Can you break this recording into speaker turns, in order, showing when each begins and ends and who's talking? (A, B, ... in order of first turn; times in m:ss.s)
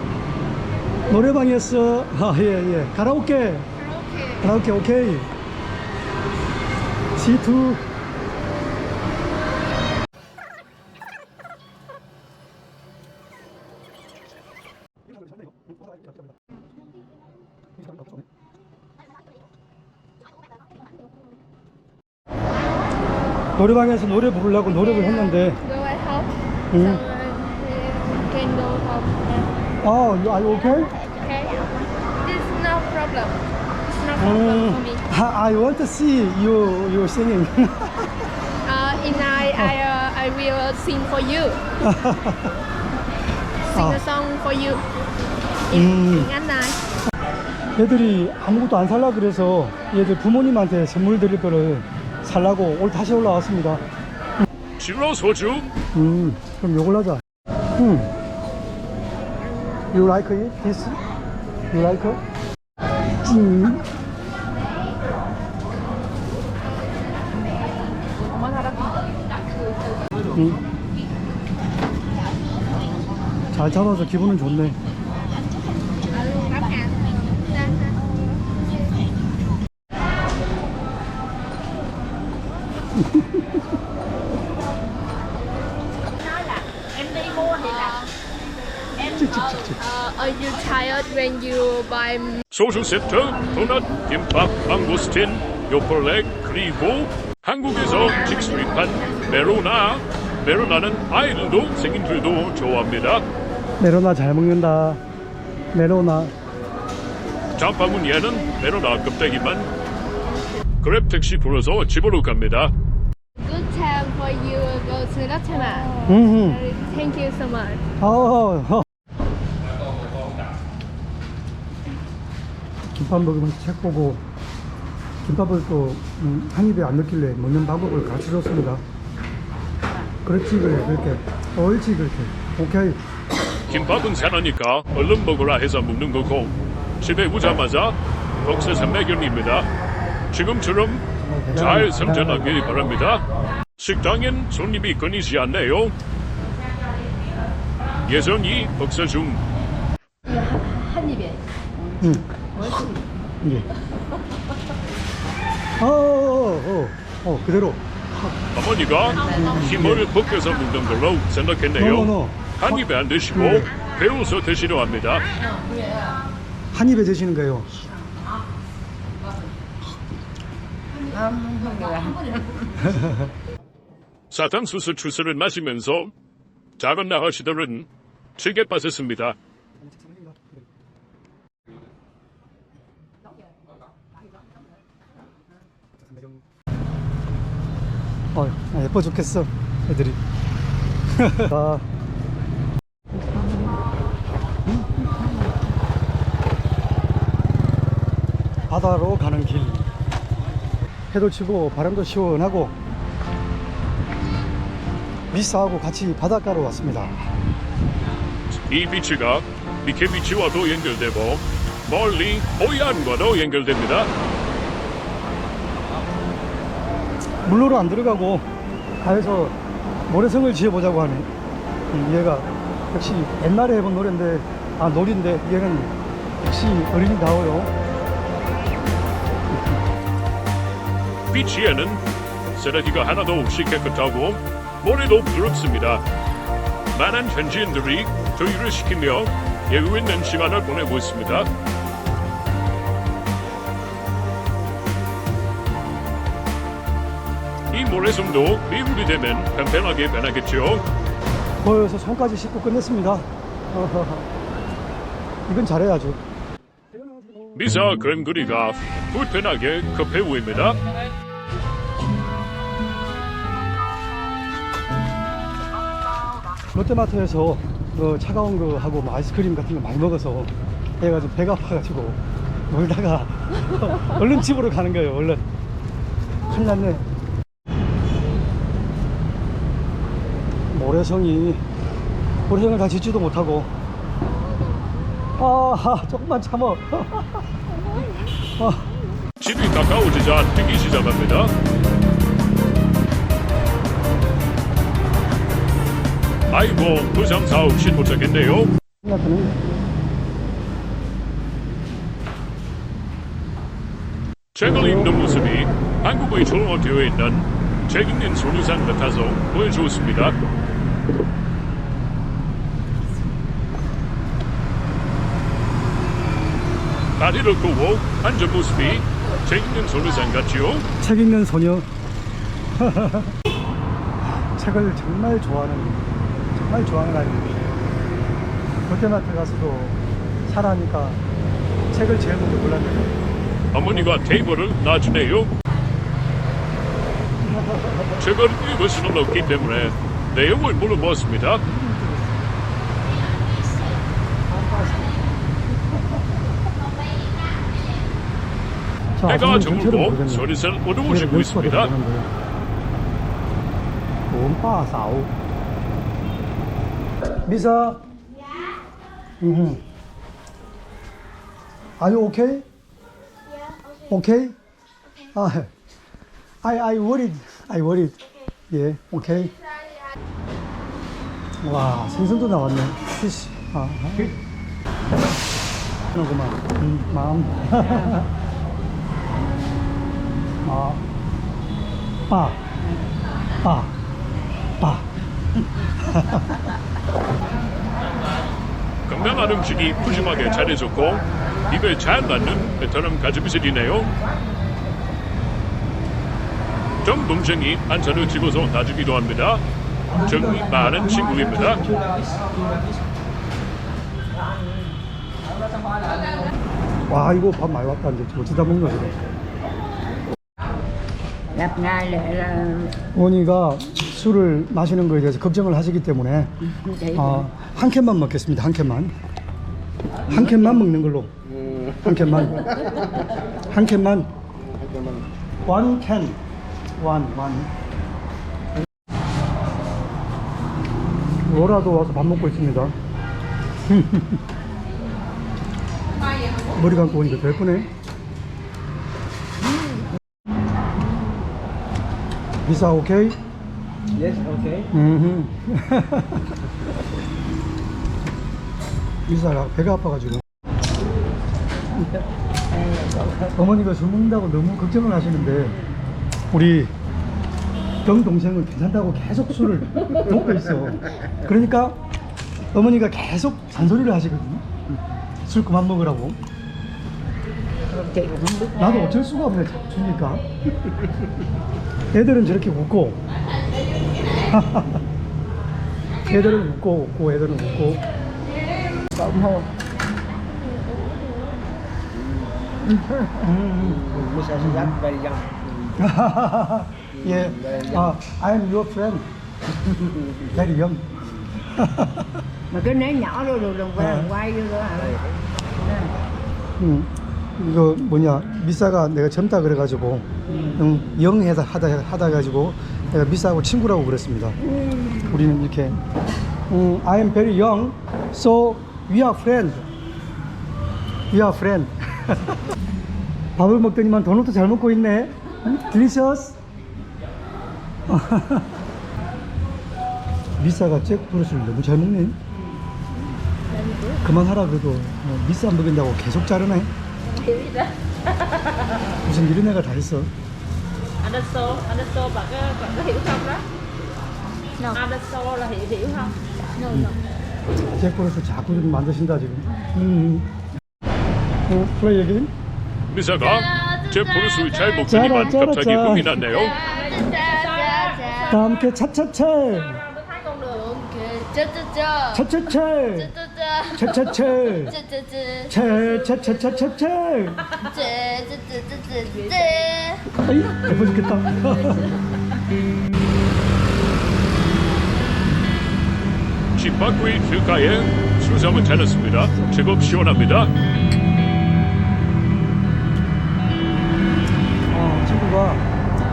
0:01.1-0:03.7 A
0:03.8-0:04.5 B
0:04.4-0:05.3 A
0:07.2-0:07.8 A
0:23.6-0:25.6 A
0:24.7-0:29.5 B
0:26.7-0:27.0 A
0:29.8-0:30.9 A
0:31.0-0:35.0 B
0:34.2-0:38.1 A
0:38.6-0:41.6 B
0:41.8-0:42.5 A
0:43.7-0:44.8 B
0:43.7-0:44.0 A
0:45.7-0:46.8 B
0:45.7-0:46.3 A
0:47.8-0:53.8 A
0:54.8-0:55.6 C
0:55.9-0:57.2 A
0:57.8-0:58.1 A
0:59.9-1:01.0 A
1:01.7-1:02.2 A
1:03.2-1:03.8 A
1:06.6-1:07.9 B
1:10.3-1:10.6 A
1:13.5-1:14.8 A
1:16.1-1:18.6 B
1:23.1-1:23.4 A
1:26.1-1:28.1 D
1:27.6-1:28.1 B
1:29.0-1:29.8 A
1:29.8-1:32.4 B
1:32.5-1:43.2 C
1:43.8-1:45.0 A
1:45.7-1:46.3 A
1:47.6-1:49.7 C
1:50.8-1:52.7 C
1:53.4-1:57.8 B
1:56.1-1:56.6 A
1:58.0-1:58.8 A
2:02.9-2:04.2 A
2:05.2-2:08.8 A
2:10.2-2:13.0 A
2:13.7-2:19.7 C
2:20.3-2:23.2 C
2:21.2-2:22.6 A
2:23.8-2:25.9 C
2:28.0-2:29.4 C
2:30.7-2:31.2 E
2:32.0-2:32.8 A
2:35.8-2:38.4 A
2:38.5-2:45.3 C
2:39.3-2:40.0 A
2:41.8-2:42.7 A
2:43.3-2:43.7 A
2:46.7-2:47.7 A
2:50.9-2:53.0 E
2:54.3-2:56.1 C
2:56.8-2:59.3 C
2:59.9-3:00.4 A
3:08.3-3:10.2 A
3:11.1-3:11.9 A
3:18.7-3:19.9 A
3:21.1-3:22.7 A
3:25.3-3:27.2 A
3:28.5-3:34.1 C
3:37.4-3:38.4 A
3:39.0-3:39.6 A
3:40.1-3:41.3 A
3:41.9-3:47.7 A
3:49.5-3:49.8 A
3:51.3-3:52.0 C
3:52.5-3:56.0 C
3:56.9-4:01.5 C
4:07.7-4:10.8 C
4:11.6-4:14.3 A
4:15.5-4:16.2 A
4:17.0-4:17.6 A
4:17.5-4:20.8 C
4:26.7-4:35.4 A
4:36.4-4:37.1 A
4:40.7-4:41.6 A
4:42.5-4:43.7 A
4:45.4-4:47.6 A
4:48.6-4:48.9 A
4:49.4-4:51.5 C
4:56.5-4:58.7 C
4:59.0-4:59.6 A
5:04.5-5:10.4 C
5:04.6-5:05.5 A
5:17.2-5:20.8 C
5:21.0-5:21.9 A
5:22.8-5:23.4 A
5:24.2-5:27.7 A
5:28.8-5:31.2 A
5:31.9-5:33.2 A
5:33.7-5:35.5 C
5:37.5-5:38.2 A
5:38.2-5:41.6 C
5:39.5-5:39.9 A
5:44.6-5:45.0 A
5:49.2-5:50.5 A
5:49.2-5:51.9 C
5:51.0-5:52.3 A
5:54.3-5:55.3 A
5:57.4-5:58.0 A
5:59.4-5:59.8 A
6:02.0-6:02.6 A
6:04.0-6:04.6 A
6:05.3-6:05.7 A
6:06.6-6:08.2 A
6:08.7-6:09.5 A
6:11.6-6:14.4 A
6:16.1-6:18.3 A
6:20.6-6:21.0 A
6:22.3-6:22.6 A
6:23.6-6:23.9 A
6:24.8-6:25.1 A
6:26.0-6:26.6 A
6:29.1-6:34.1 C
6:37.0-6:39.6 C
6:40.1-6:42.2 A
6:40.2-6:41.8 C
6:44.4-6:44.9 E
6:47.1-6:49.1 A
6:51.5-6:53.0 E
6:53.1-6:56.5 A
6:56.7-6:57.5 E
6:57.1-6:59.1 A
7:00.3-7:01.3 A
7:02.0-7:02.7 A
7:03.7-7:04.3 A
7:05.6-7:06.4 A
7:07.0-7:07.7 A
7:11.4-7:12.9 A
7:13.8-7:14.4 A
7:16.7-7:17.9 A
7:22.6-7:23.4 A
7:24.2-7:24.8 F
7:24.9-7:26.5 A
7:29.3-7:30.4 A
7:33.5-7:35.8 A
7:36.5-7:36.9 A
7:38.0-7:42.0 A
7:42.7-7:44.6 A
7:45.4-7:46.4 A
7:47.9-7:48.8 E
7:48.8-7:50.4 A
7:52.1-7:53.2 A
7:54.4-7:55.0 A
7:56.2-7:58.0 A
8:00.7-8:01.5 B
8:03.4-8:05.0 A
8:04.1-8:05.7 F
8:06.0-8:09.2 A
8:10.5-8:11.1 A
8:11.6-8:12.3 A
8:12.7-8:15.2 E
8:14.0-8:14.3 A
8:15.8-8:16.2 E
8:16.8-8:24.6 A
8:25.3-8:26.0 A
8:26.7-8:29.9 A
8:31.3-8:32.6 A
8:33.6-8:36.6 A
8:38.1-8:38.8 A
8:40.6-8:42.4 A
8:43.7-8:44.2 D
8:44.2-8:46.9 A
8:47.2-8:49.0 D
8:49.2-8:50.3 A
8:51.2-8:53.6 D
8:54.9-8:56.8 D
8:56.9-8:57.1 A
8:57.9-9:00.5 A
9:01.7-9:02.5 A
9:03.1-9:06.8 C
9:03.8-9:04.6 B
9:05.1-9:06.6 A
9:06.5-9:08.9 D
9:06.6-9:08.6 B
9:08.5-9:10.0 A
9:09.6-9:11.6 D
9:11.4-9:12.5 B
9:12.3-9:13.3 A
9:13.2-9:15.8 B
9:13.9-9:15.0 A
9:15.7-9:17.8 A
9:17.8-9:20.2 B
9:19.3-9:20.0 D
9:20.4-9:22.1 A
9:26.8-9:30.7 C
9:29.5-9:30.2 A
9:34.9-9:35.8 A